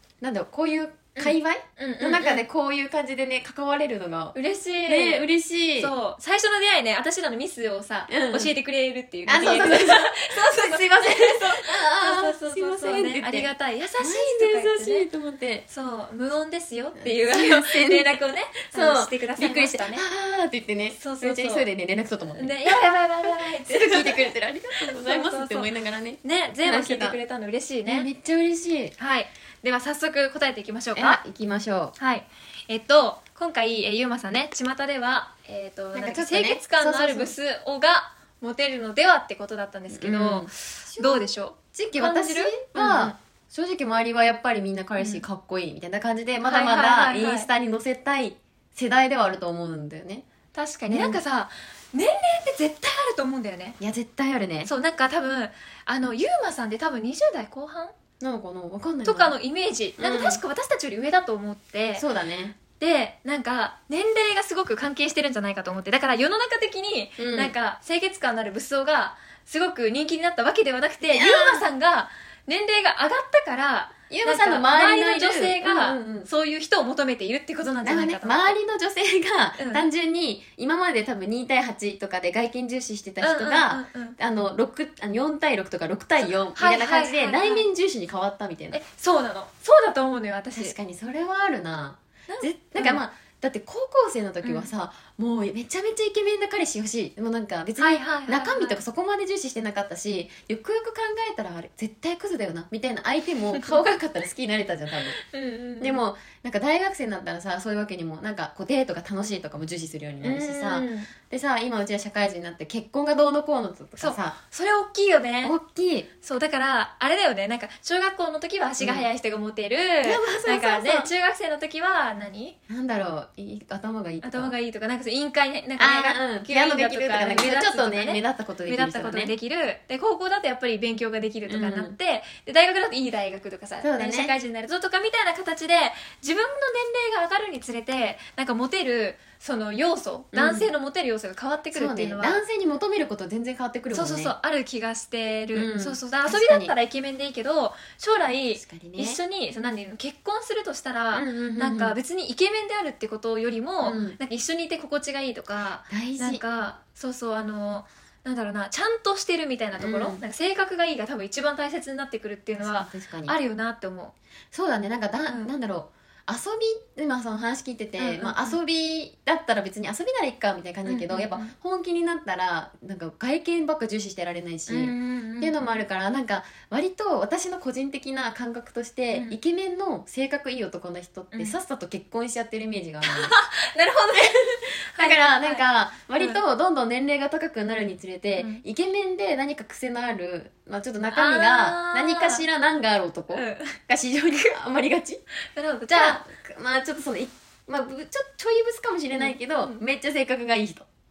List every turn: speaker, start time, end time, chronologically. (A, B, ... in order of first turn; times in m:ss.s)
0:00.2-0:04.4 A
0:01.2-0:02.4 B
0:04.3-0:15.1 B
0:04.9-0:05.9 A
0:08.1-0:08.5 A
0:09.3-0:15.6 A
0:15.7-0:20.0 B
0:17.0-0:27.2 A
0:21.0-0:21.7 B
0:22.4-0:25.7 B
0:26.2-0:28.1 B
0:27.8-0:28.9 A
0:29.0-0:31.2 B
0:31.0-0:32.0 A
0:32.0-0:43.2 B
0:35.9-0:37.3 A
0:39.9-0:50.2 A
0:45.0-0:45.2 B
0:46.4-0:47.5 B
0:50.5-0:53.8 B
0:50.9-0:51.2 A
0:53.8-0:54.7 A
0:54.6-0:57.9 B
0:58.2-0:59.4 A
0:59.0-1:02.0 B
1:00.0-1:00.4 A
1:02.0-1:02.6 A
1:02.8-1:18.6 B
1:07.2-1:07.5 A
1:11.1-1:11.7 A
1:14.1-1:16.3 A
1:17.8-1:28.8 A
1:19.6-1:19.8 B
1:23.2-1:24.2 B
1:26.2-1:27.6 B
1:28.7-1:30.8 B
1:30.6-1:45.2 A
1:32.3-1:33.0 B
1:34.4-1:34.7 B
1:37.8-1:38.8 B
1:43.6-1:43.9 B
1:45.2-1:46.0 B
1:45.8-1:54.4 A
1:50.2-1:51.1 B
1:54.0-1:55.6 B
1:55.4-1:56.1 A
1:56.2-2:02.6 B
1:58.8-1:59.1 A
2:00.0-2:01.1 A
2:02.7-2:04.5 A
2:04.2-2:22.4 B
2:05.8-2:09.3 A
2:11.5-2:12.0 A
2:13.8-2:14.3 A
2:20.3-2:20.7 A
2:21.7-2:24.3 A
2:23.9-2:44.1 B
2:25.5-2:26.7 A
2:28.6-2:29.2 A
2:31.1-2:32.0 A
2:33.8-2:34.2 A
2:35.9-2:36.4 A
2:39.8-2:40.2 A
2:42.6-2:43.4 A
2:44.5-3:03.3 A
2:45.3-2:45.5 B
2:48.0-2:48.6 B
2:50.8-2:51.5 B
2:54.7-2:55.8 B
2:59.1-2:59.4 B
3:03.0-3:05.6 B
3:04.2-3:04.5 A
3:05.0-3:15.2 A
3:06.2-3:06.4 B
3:08.4-3:08.6 B
3:11.0-3:12.4 B
3:13.3-3:13.8 B
3:15.5-3:16.2 B
3:15.9-3:20.9 A
3:19.1-3:19.8 B